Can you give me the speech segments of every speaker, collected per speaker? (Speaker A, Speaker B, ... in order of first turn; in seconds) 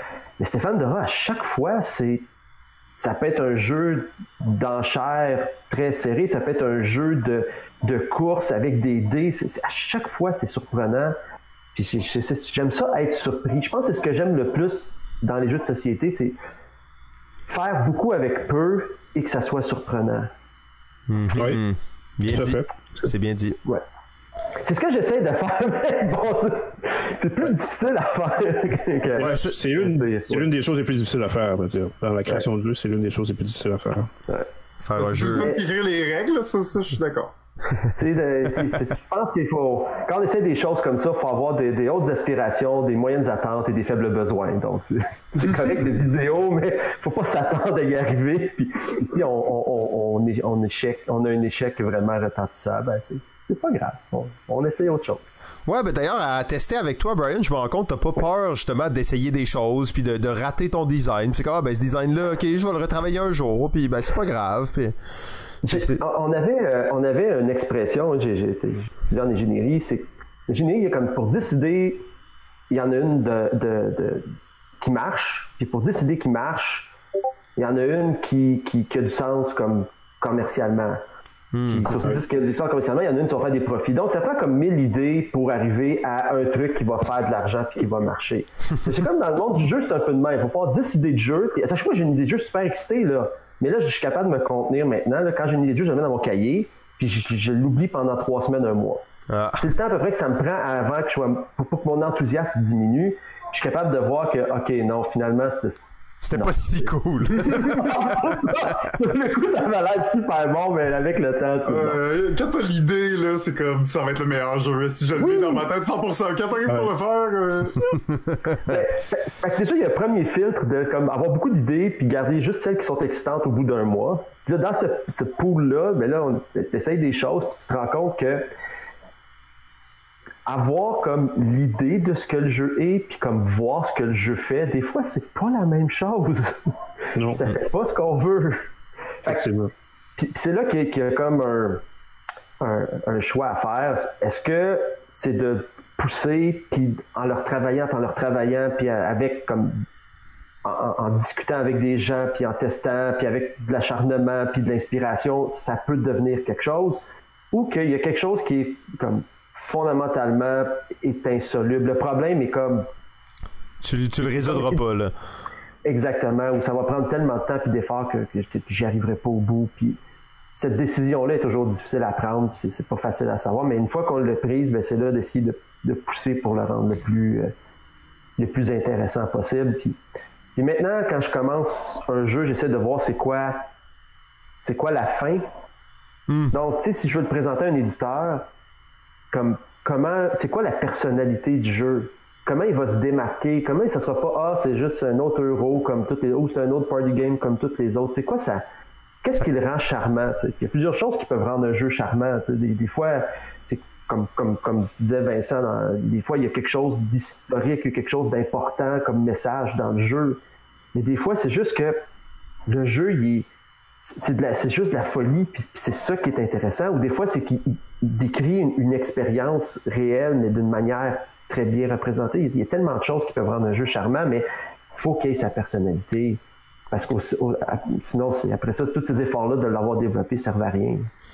Speaker A: 0.4-2.2, 3.0-11.1, 11.7-16.4, 17.5-20.3, 24.6-30.5, 35.4-35.6, 38.0-55.2, 65.6-72.0, 72.7-76.9, 77.6-81.0, 81.7-99.0, 99.6-105.8, 106.3-112.0, 115.2-115.6, 118.7-128.5, 130.4-136.7, 137.2-138.7, 140.2-141.8, 142.6-149.8, 150.6-157.0, 157.5-162.9, 164.4-164.8, 165.8-170.0, 170.5-177.5, 178.4-180.0, 180.6-183.6, 184.6-185.5, 186.5-188.5, 189.3-198.6, 199.2-210.4, 210.9-212.0, 212.7-213.5, 214.0-226.4, 226.9-231.1
Speaker B: 21.1-23.6, 34.8-35.5, 55.6-64.9, 65.6-66.0, 81.5-81.9, 99.3-99.6, 106.2-108.0, 163.8-165.1, 186.3-186.6
Speaker C: 21.3-21.6, 22.3-23.1, 29.1-34.1, 137.2-137.5, 139.2-139.7
Speaker D: 35.0-37.3, 107.5-107.9, 111.7-118.0